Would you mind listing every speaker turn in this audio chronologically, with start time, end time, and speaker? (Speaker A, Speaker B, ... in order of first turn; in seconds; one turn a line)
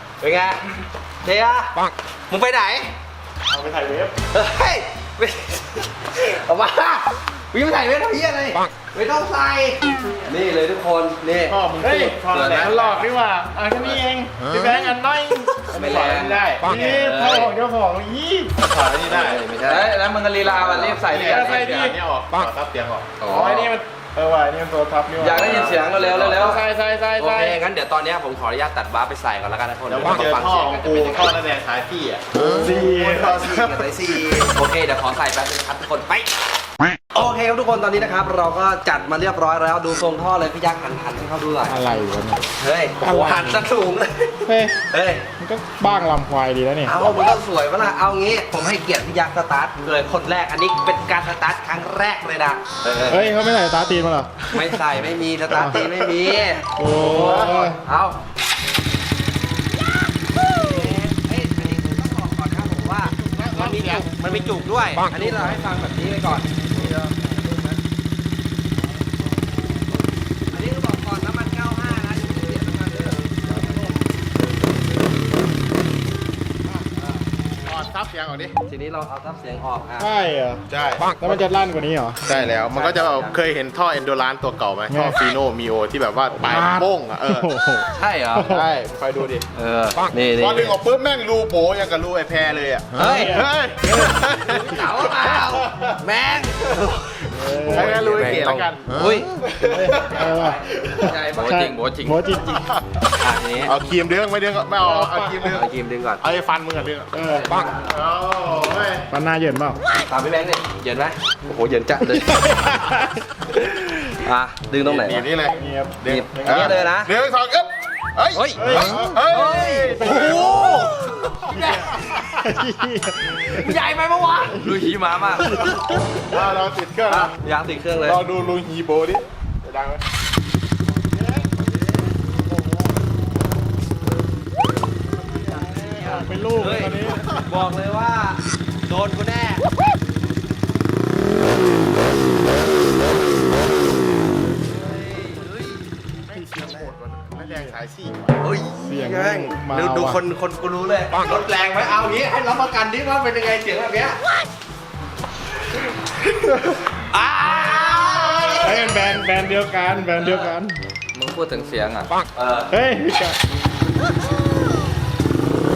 Speaker A: 0.2-0.6
Speaker A: 1.2-1.8
Speaker A: 2.3-2.9
Speaker B: 3.5-4.2
Speaker A: 4.3-11.6
Speaker C: 11.5-13.1
Speaker B: 11.8-18.6
Speaker D: 12.3-12.8
Speaker D: 15.7-17.5
Speaker C: 15.8-16.7
Speaker C: 18.6-19.4
Speaker A: 19.1-19.9
Speaker D: 19.6-21.9
Speaker C: 20.4-23.2
Speaker B: 21.1-21.9
Speaker A: 23.2-23.7
Speaker B: 23.2-27.6
Speaker D: 25.2-26.6
Speaker A: 25.3-26.6
Speaker A: 27.2-31.4
Speaker C: 29.9-33.9
Speaker A: 32.4-36.3
Speaker B: 32.5-33.2
Speaker A: 37.1-41.8
Speaker B: 41.7-42.5
Speaker A: 42.6-45.3
Speaker B: 43.0-43.6
Speaker B: 44.5-44.8
Speaker B: 45.4-46.9
Speaker A: 46.9-53.3
Speaker B: 53.1-54.8
Speaker A: 54.5-58.2
Speaker B: 55.5-55.9
Speaker B: 56.8-57.8
Speaker C: 57.2-57.7
Speaker A: 60.4-67.8
Speaker C: 63.1-64.5
Speaker A: 70.5-74.0
Speaker C: 77.6-78.5
Speaker A: 78.7-80.1
Speaker B: 80.0-80.7
Speaker C: 80.7-81.5
Speaker B: 81.2-82.2
Speaker C: 82.2-87.5
Speaker A: 82.3-83.4
Speaker B: 84.9-85.2
Speaker B: 86.4-88.7
Speaker A: 88.0-88.5
Speaker C: 88.4-89.5
Speaker A: 89.5-90.8
Speaker C: 90.3-95.9
Speaker A: 93.0-99.3
Speaker B: 93.0-94.9
Speaker B: 97.3-98.3
Speaker C: 97.7-98.9
Speaker D: 97.9-98.6
Speaker C: 99.4-100.3
Speaker B: 99.6-102.7
Speaker A: 99.9-100.6
Speaker D: 100.9-102.3
Speaker C: 102.6-103.0
Speaker D: 103.2-103.8
Speaker C: 103.6-105.7
Speaker B: 104.8-105.5
Speaker A: 105.5-106.2
Speaker C: 106.2-107.2
Speaker B: 107.1-107.5
Speaker A: 107.3-108.0
Speaker C: 107.9-109.1
Speaker B: 109.1-109.8
Speaker A: 110.1-112.8
Speaker B: 112.1-113.2
Speaker A: 114.1-115.3
Speaker C: 114.8-120.7
Speaker B: 115.5-116.8
Speaker A: 116.1-117.1
Speaker A: 118.3-122.5
Speaker B: 118.6-119.0
Speaker D: 119.3-119.7
Speaker B: 119.8-120.9
Speaker C: 121.5-122.3
Speaker B: 121.5-123.8
Speaker A: 123.4-124.6
Speaker B: 124.5-126.2
Speaker D: 124.6-125.6
Speaker C: 126.2-127.3
Speaker A: 127.1-128.2
Speaker C: 128.0-130.0
Speaker A: 135.3-139.7
Speaker B: 135.5-137.5
Speaker A: 144.8-145.9
Speaker C: 146.3-148.4
Speaker A: 148.4-154.2
Speaker B: 148.8-150.2
Speaker A: 156.5-159.2
Speaker B: 158.6-160.8
Speaker D: 161.1-162.1
Speaker A: 162.3-162.7
Speaker B: 162.7-163.4